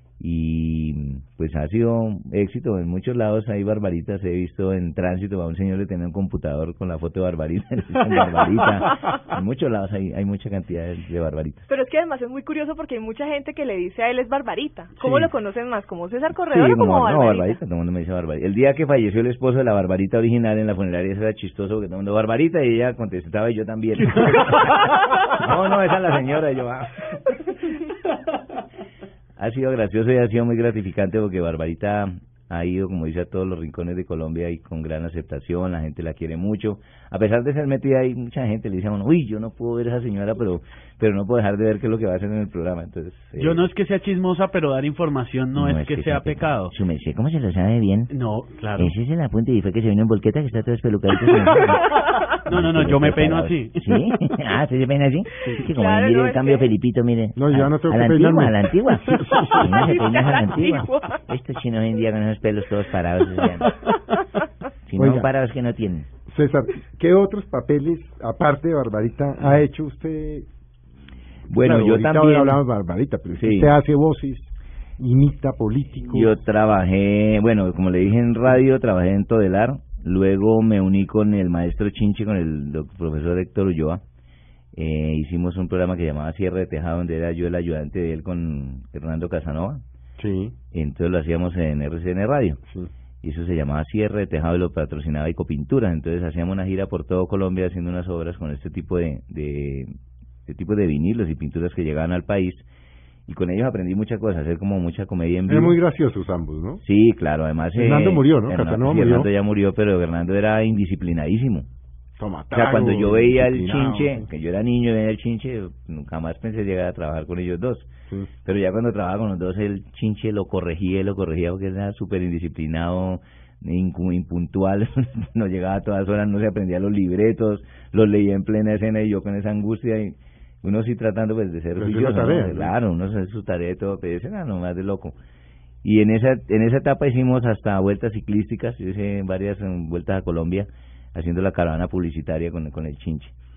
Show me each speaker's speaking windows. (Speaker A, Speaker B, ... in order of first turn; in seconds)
Speaker A: 0.2-11.7, 16.5-27.1, 29.4-43.6, 45.5-48.1, 48.8-51.9, 52.5-63.8, 64.9-66.1, 71.5-72.6, 73.3-73.7, 76.1-84.0, 84.8-89.8, 90.7-92.6, 93.2-99.9, 100.5-102.7, 103.3-105.8, 106.8-111.7, 112.5-117.9, 118.4-135.1, 135.8-143.3
Speaker B: 11.7-17.6, 55.5-56.7, 59.3-61.2
Speaker C: 15.0-15.3, 43.4-46.7, 48.1-48.9, 52.5-54.0
Speaker D: 57.4-59.7, 65.0-65.3, 66.3-70.5, 71.5-76.4, 90.2-90.5, 105.5-106.8, 107.7-109.3, 112.2-114.3, 131.8-132.7